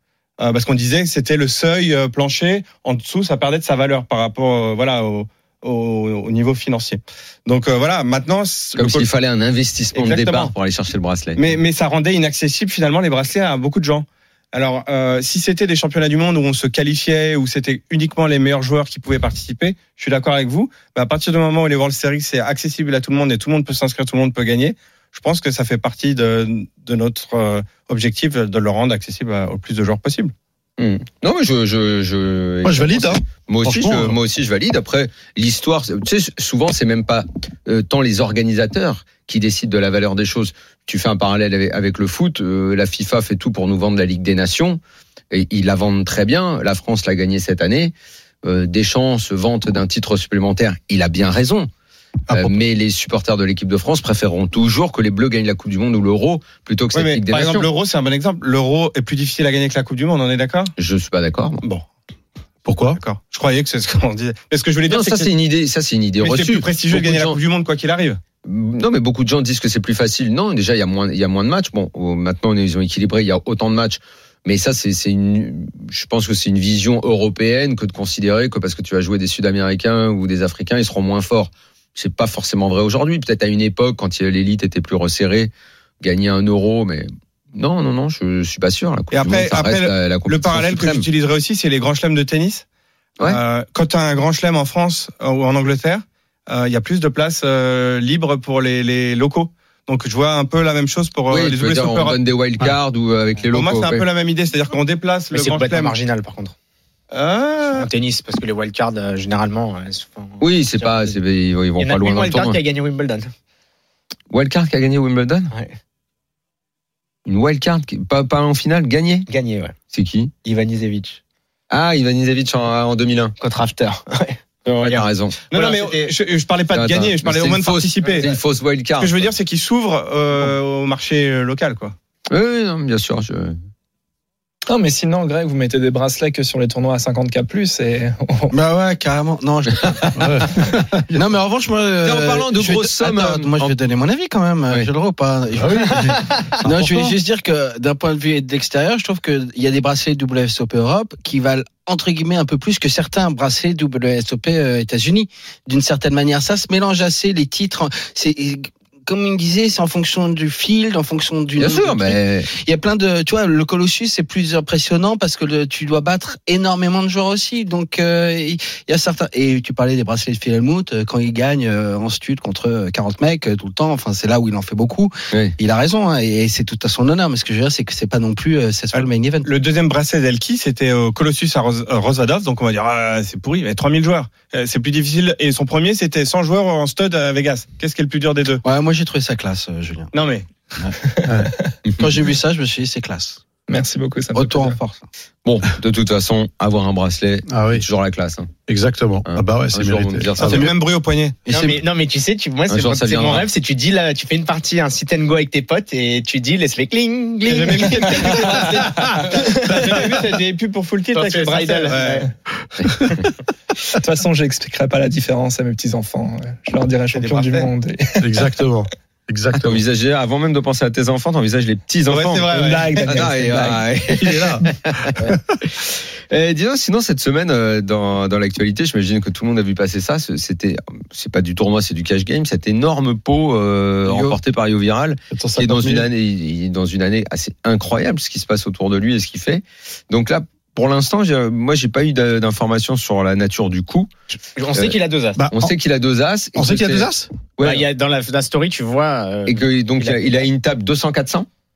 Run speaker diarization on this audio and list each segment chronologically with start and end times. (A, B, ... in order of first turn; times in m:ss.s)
0:00.4-0:09.1 A
0:08.8-0:11.5 B
0:09.9-0:10.5 A
0:11.4-0:30.3 A
0:30.8-0:44.8 B
0:32.6-0:34.2 C
0:45.3-0:47.9 B
0:48.4-0:51.7 B
0:52.3-0:52.6 C
0:52.3-0:57.7 B
0:56.9-1:00.7 A
1:00.8-1:01.6 B
1:02.6-1:03.0 C
1:02.9-1:05.3 A
1:04.9-1:07.4 B
1:06.2-1:08.2 A
1:08.4-1:31.0 B
1:29.1-1:32.6 A
1:33.2-1:42.2 A
1:41.3-1:44.0 B
1:43.5-1:46.0 A
1:45.3-1:46.5 D
1:47.1-1:47.9 A
1:47.7-1:51.2 D
1:50.4-1:52.6 B
1:51.8-1:53.3 D
1:54.3-1:55.5 B
1:57.2-1:59.3 B
1:59.3-1:59.7 D
1:59.9-2:00.3 B
2:00.4-2:01.2 D
2:01.7-2:03.3 B
2:03.4-2:06.1 D
2:04.6-2:05.4 B
2:05.5-2:08.3 A
2:06.7-2:09.3 B
2:09.0-2:11.9 A
2:12.3-2:13.6 B
2:14.7-2:18.5 E
2:18.5-2:20.5 F
2:20.2-2:21.3 C
2:21.1-2:59.5 F
2:22.0-2:23.7 B
2:25.5-2:27.2 C
2:41.6-2:42.5 B
2:58.9-3:08.6 A
3:08.6-3:10.1 F
3:10.1-3:10.5 A
3:11.3-3:11.7 E
3:11.9-3:13.4 F
3:13.7-3:14.8 E
3:14.3-3:15.0 F
3:15.4-3:18.5 B
3:17.5-3:17.8 C
3:18.7-3:20.7 C
3:19.2-3:20.7 B
3:20.4-3:21.4 A
3:21.4-3:21.8 F
3:21.5-3:30.0 D
3:22.7-3:23.5 B
3:27.4-3:32.2 A
3:31.1-3:32.2 D
3:33.9-3:38.3 E
3:37.1-3:37.7 A
3:38.2-3:39.8 C
3:39.6-3:45.1 B
3:42.1-3:43.3 A
3:42.5-3:43.9 E
3:44.1-3:45.4 C
3:46.3-4:04.1 B
3:54.0-3:54.4 C
3:55.3-3:56.1 C
4:04.5-4:05.4 D
4:05.4-4:05.7 C
4:05.5-4:07.8 B
4:06.5-4:07.3 C
4:07.6-4:10.4 D
4:09.4-4:11.5 B